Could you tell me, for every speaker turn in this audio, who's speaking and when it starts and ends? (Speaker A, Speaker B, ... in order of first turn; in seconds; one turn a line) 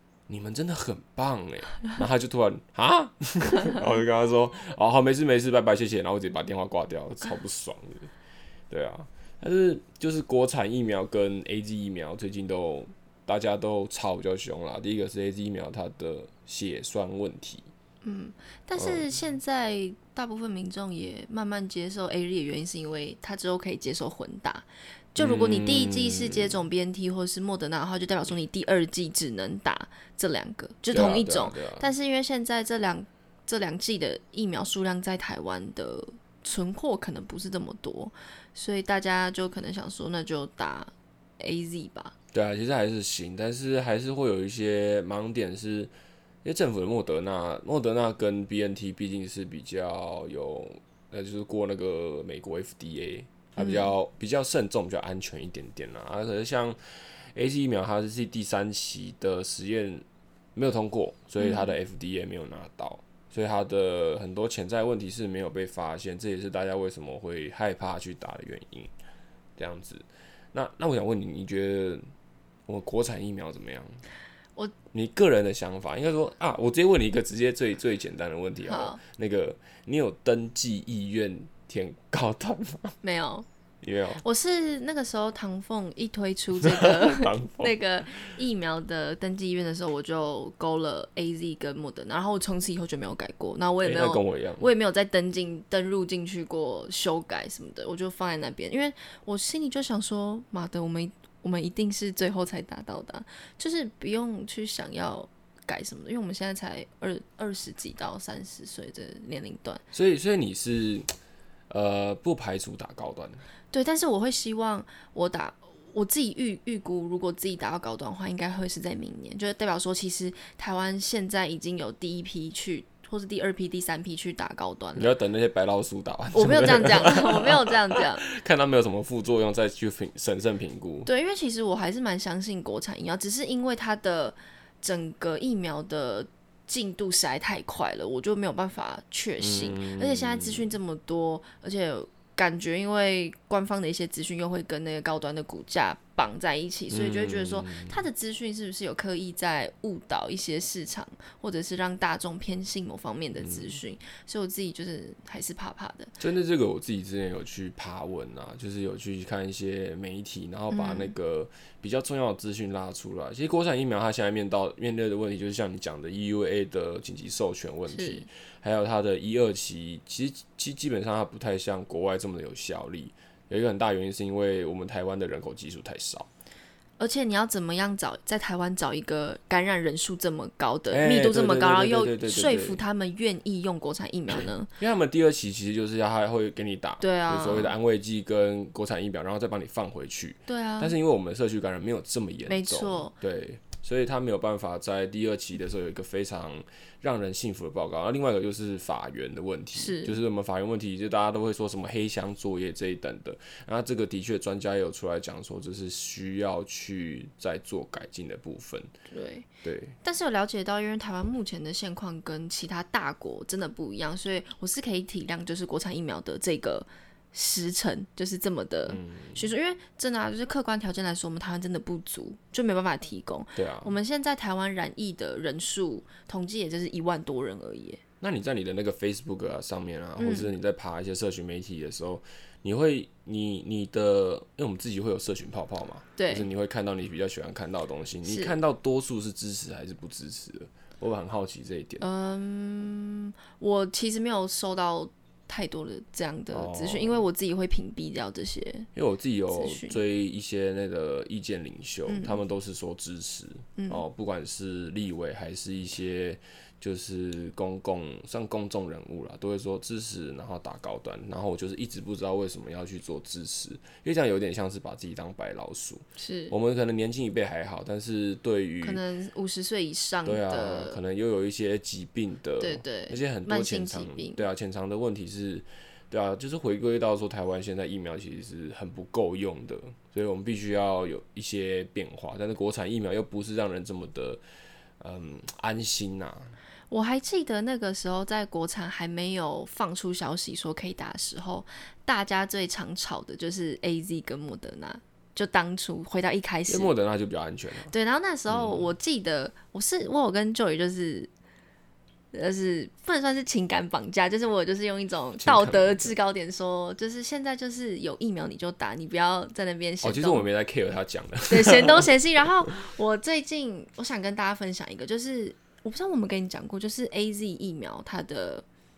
Speaker A: 0.3-8.1
Speaker A: 8.7-17.7
Speaker B: 18.0-42.1
Speaker A: 18.8-19.0
Speaker A: 25.2-26.6
Speaker A: 30.9-31.9
Speaker A: 42.3-45.9
Speaker A: 46.4-60.0
Speaker B: 53.6-53.9
Speaker A: 60.5-68.9
Speaker B: 61.4-61.7
Speaker A: 69.6-72.1
Speaker A: 72.7-74.0
Speaker A: 74.9-83.0
Speaker B: 78.7-79.0
Speaker B: 83.0-83.5
Speaker A: 83.8-84.2
Speaker B: 84.2-109.8
Speaker A: 86.6-87.7
Speaker A: 93.8-94.7
Speaker A: 109.9-111.1
Speaker A: 111.7-113.4
Speaker B: 113.7-125.1
Speaker A: 125.0-131.1
Speaker B: 126.3-128.2
Speaker B: 131.1-156.1
Speaker A: 139.4-140.7
Speaker A: 146.9-148.0
Speaker A: 153.4-153.8
Speaker A: 156.2-176.3
Speaker B: 160.7-161.1
Speaker B: 167.9-168.2
Speaker B: 177.0-184.7
Speaker A: 180.9-182.8
Speaker A: 184.3-208.9
Speaker B: 187.0-187.7
Speaker B: 190.5-190.9
Speaker B: 192.5-193.1
Speaker B: 199.7-200.2
Speaker B: 209.1-209.5
Speaker A: 209.6-209.9
Speaker B: 210.0-228.0
Speaker A: 218.9-219.5
Speaker A: 223.6-223.9
Speaker A: 228.2-242.0
Speaker B: 230.2-230.5
Speaker B: 236.2-236.5
Speaker B: 238.2-238.5
Speaker B: 242.0-248.9
Speaker A: 246.5-247.2
Speaker A: 248.9-269.0
Speaker B: 249.5-250.0
Speaker B: 252.1-252.4
Speaker B: 253.8-254.0
Speaker B: 266.2-266.5
Speaker B: 268.8-271.0
Speaker A: 270.2-284.4
Speaker B: 272.6-274.4
Speaker A: 285.0-286.5
Speaker B: 286.9-296.9
Speaker A: 296.7-297.9
Speaker B: 297.9-301.3
Speaker A: 298.5-298.9
Speaker B: 302.3-310.4
Speaker A: 305.4-306.1
Speaker A: 310.0-312.1
Speaker B: 311.5-318.6